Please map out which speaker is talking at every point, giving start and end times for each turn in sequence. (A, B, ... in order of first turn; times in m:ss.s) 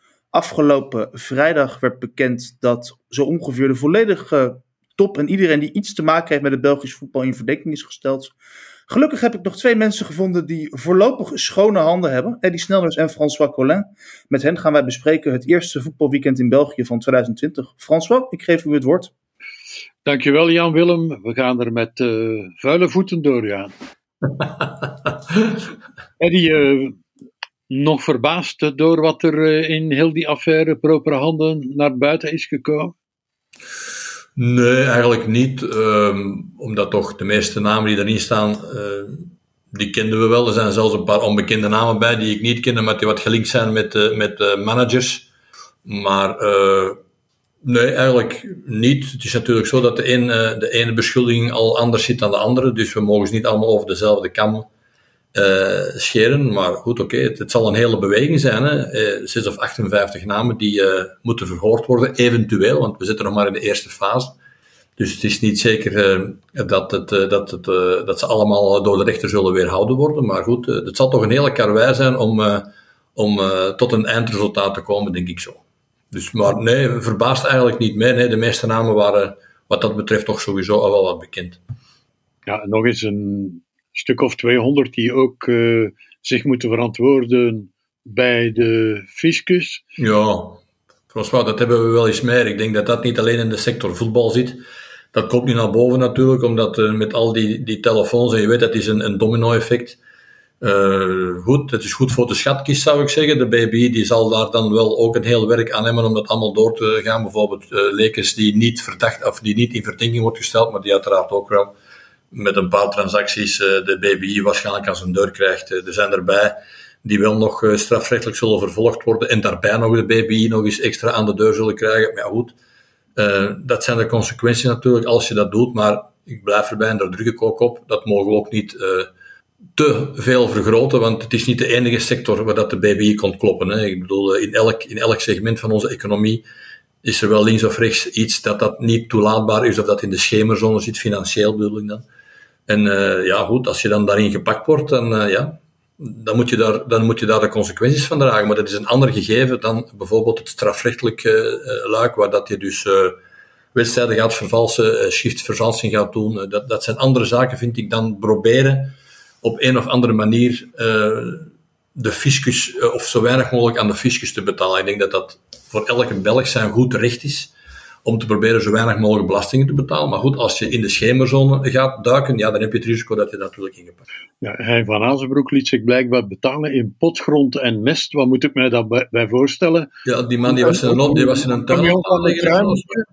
0:00.3-0:08.3 A
0:08.9-0:19.1 A
0:20.0-0:23.7 B
0:26.2-0:27.0 B
0:27.7-0:32.9 B
0:34.4-0:45.3 C
0:45.8-0:47.0 C
0:47.6-0:54.7 C
0:55.3-1:04.3 C
1:05.0-1:21.6 C
1:22.5-1:29.8 B
1:30.0-1:34.6 C
1:35.1-1:40.0 C
1:40.6-1:51.7 C
1:52.3-2:02.5 C
2:03.2-2:09.1 C
2:09.8-2:16.4 C
2:17.0-2:22.0 C
2:22.7-2:33.2 C
2:33.7-2:47.5 C
2:48.0-2:54.0 C
2:54.4-2:59.9 B
3:00.0-3:02.9 C
3:00.4-3:03.0 B